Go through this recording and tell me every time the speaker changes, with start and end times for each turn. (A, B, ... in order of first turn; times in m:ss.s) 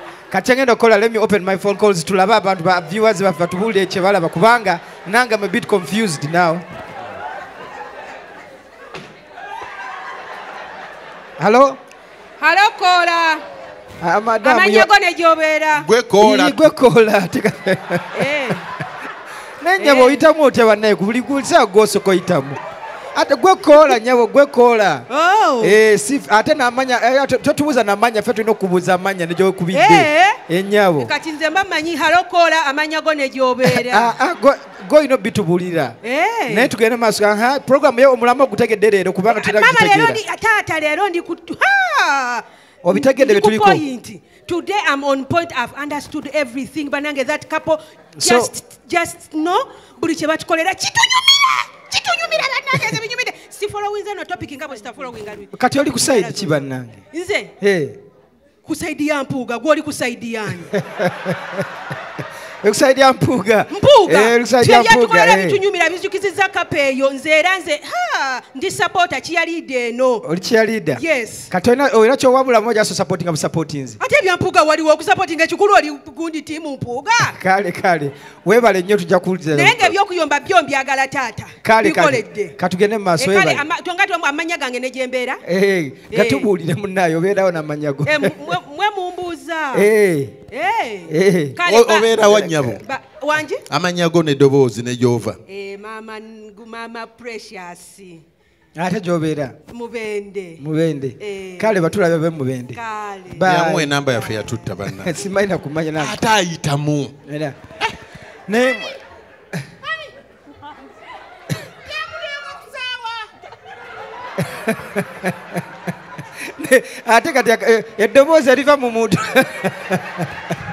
0:00.3-0:06.6 A
0:11.4-0:11.8 A
0:12.4-0:13.4 B
0:14.0-0:14.9 A
0:14.4-0:15.9 B
0:15.7-0:16.6 C
0:16.2-0:18.3 A
0:18.1-0:18.6 B
0:19.6-0:22.6 A
0:19.8-0:20.2 B
0:23.1-0:25.1 A
0:25.1-0:25.8 B
0:25.6-0:31.1 A
0:29.7-0:30.4 B
0:31.0-0:34.1 B
0:33.6-0:40.2 A
0:36.0-0:36.7 B
0:39.3-0:57.5 B
0:42.8-0:43.8 A
0:48.2-0:48.5 A
0:55.5-0:57.0 A
0:57.6-0:58.0 A
0:58.6-1:00.7 B
1:00.7-1:01.6 A
1:02.6-1:05.6 A
1:03.7-1:10.2 B
1:10.2-1:14.0 A
1:10.9-1:11.5 B
1:14.0-1:17.4 B
1:17.2-1:20.0 A
1:19.5-1:22.5 B
1:21.6-1:23.6 A
1:23.2-1:25.4 B
1:25.4-1:28.6 A
1:26.1-1:26.5 B
1:28.0-1:29.9 B
1:29.7-1:30.4 A
1:30.5-1:33.6 B
1:31.1-1:31.6 A
1:31.6-1:32.8 C
1:33.7-1:35.4 C
1:35.5-1:38.2 B
1:38.8-1:39.6 A
1:39.7-1:40.6 B
1:40.6-1:43.9 A
1:41.2-1:41.9 B
1:42.7-1:43.4 B
1:43.4-1:45.2 C
1:44.1-1:44.5 B
1:44.9-1:46.2 A
1:45.9-1:47.1 C
1:47.2-1:47.6 A
1:48.5-1:49.0 A
1:52.5-1:52.8 B
1:54.4-1:55.6 A
1:56.4-2:00.5 A